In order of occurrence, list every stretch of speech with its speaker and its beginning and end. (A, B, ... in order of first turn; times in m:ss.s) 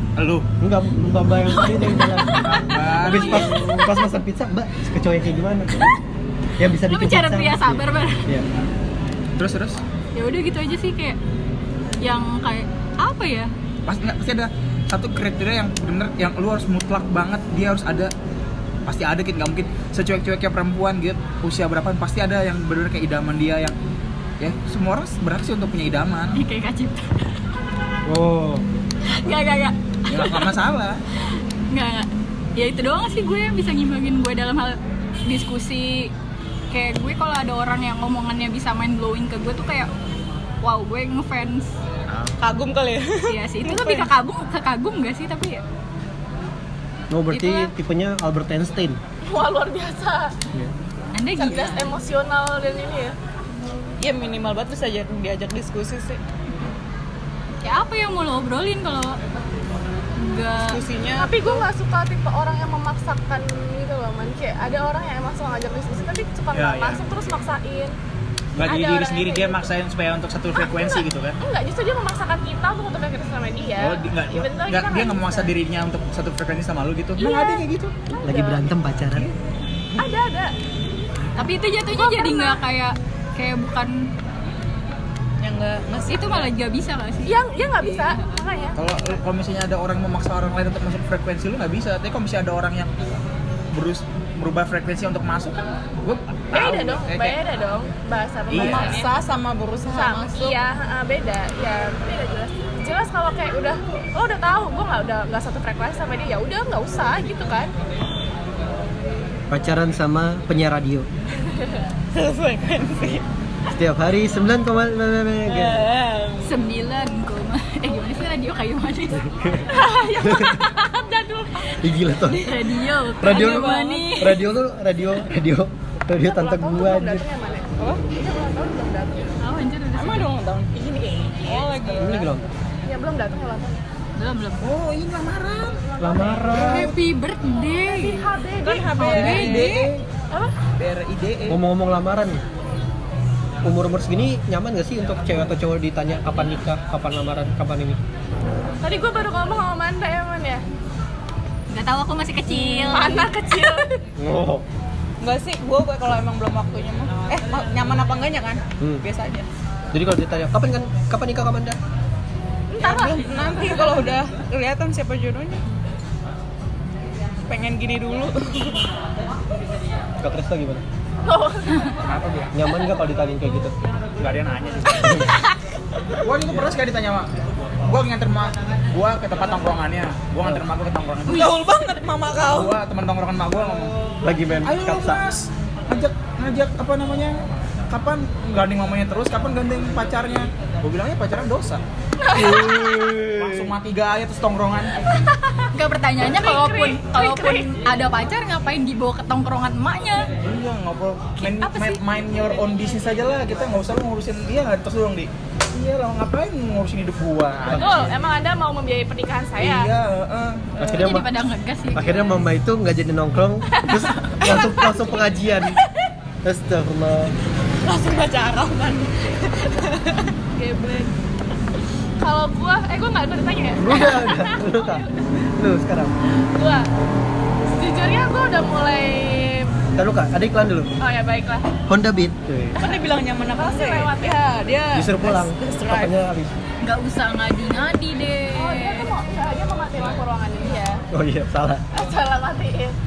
0:00.2-0:00.5 A
0:00.6-0:05.9 B
0:01.6-0:02.4 C
0:02.4-0:03.9 A
0:03.1-0:03.4 C
0:06.6-0:08.4 B
0:06.8-0:08.3 C
0:09.4-0:09.8 A
0:10.1-0:11.2 C
0:12.0-0:13.5 C
0:13.8-0:18.1 A
0:18.9-0:23.8 A
0:24.4-0:26.4 A
0:26.3-0:27.3 C
0:28.0-0:28.6 B
0:29.1-0:30.6 C
0:30.1-0:31.0 A
0:31.7-0:36.1 C
0:36.7-0:39.9 C
0:40.6-0:41.7 C
0:42.1-0:42.4 A
0:42.4-0:44.1 D
0:43.2-0:45.6 C
0:47.1-0:49.0 B
0:47.3-0:47.7 C
0:49.2-0:50.3 E
0:51.1-0:51.9 C
0:51.3-0:53.2 E
0:54.0-0:56.2 D
0:57.6-0:59.2 C
1:00.2-1:00.8 C
1:00.7-1:01.6 D
1:01.2-1:07.9 E
1:06.5-1:07.1 A
1:08.5-1:11.4 A
1:08.6-1:09.7 E
1:10.7-1:15.5 E
1:13.8-1:17.9 A
1:17.2-1:18.6 E
1:18.2-1:19.3 B
1:20.0-1:20.5 E
1:21.4-1:24.1 C
1:21.9-1:22.6 E
1:25.4-1:26.5 D
1:26.1-1:27.3 C
1:27.2-1:28.8 E
1:27.8-1:28.2 C
1:28.8-1:32.9 A
1:33.7-1:37.4 A
1:36.5-1:39.1 E
1:38.5-1:39.0 A
1:38.6-1:40.6 D
1:39.9-1:47.7 E
1:49.5-1:51.1 B
1:52.1-1:53.2 D
1:53.7-1:55.9 B
1:55.5-1:56.6 D
1:56.4-1:59.3 C
1:59.4-2:00.6 B
1:59.7-2:01.8 E
2:01.8-2:02.6 B
2:02.3-2:04.4 C
2:03.2-2:07.2 B
2:03.2-2:04.2 D
2:06.2-2:09.4 E
2:09.4-2:10.3 C
2:09.9-2:12.3 D
2:11.9-2:12.5 B
2:12.8-2:13.8 E
2:14.2-2:14.7 C
2:14.6-2:15.8 A
2:15.9-2:16.8 E
2:16.0-2:17.0 B
2:16.5-2:18.3 C
2:17.8-2:19.6 E
2:18.7-2:20.0 A
2:18.9-2:19.9 D
2:18.9-2:19.9 C
2:20.8-2:21.6 A
2:21.5-2:22.4 B
2:23.6-2:28.0 B
2:28.8-2:30.6 E
2:31.7-2:33.4 C
2:32.5-2:33.9 E
2:34.2-2:34.6 B
2:35.2-2:39.4 D
2:39.9-2:41.8 B
2:42.7-2:43.7 E
2:42.8-2:45.6 D
2:47.4-2:48.8 D
2:50.2-2:50.8 B
2:51.2-2:51.9 E
2:52.0-2:52.5 A
2:52.5-2:53.7 B
2:54.2-2:55.3 A
2:55.0-2:55.3 B
2:56.2-2:57.3 A
2:57.8-3:01.6 A
3:01.3-3:02.8 D
3:02.4-3:03.9 A
3:04.2-3:05.2 B
3:04.6-3:11.8 A
3:12.2-3:12.7 E
3:12.3-3:13.7 B
3:12.7-3:14.9 A
3:15.7-3:20.3 C
3:16.2-3:17.8 E
3:20.4-3:28.0 A
3:21.4-3:22.0 C
3:27.6-3:27.9 B
3:27.7-3:29.9 E
3:29.6-3:31.0 A
3:30.8-3:31.3 B
3:30.8-3:32.2 C
3:31.9-3:35.8 B
3:34.4-3:35.3 D
3:36.4-3:37.3 B
3:37.8-3:40.3 D
3:40.6-3:41.1 E
3:42.2-3:45.2 E
3:43.8-3:46.1 B
3:46.4-3:46.9 E
3:47.7-3:49.7 E
3:50.0-3:50.9 B
3:51.0-3:51.7 E
3:51.9-3:52.8 B
3:52.8-3:56.2 D
3:53.6-3:54.8 E
3:54.9-3:56.6 B
3:56.8-3:59.1 C
3:58.5-4:01.0 E
4:01.1-4:01.8 B
4:01.9-4:03.0 E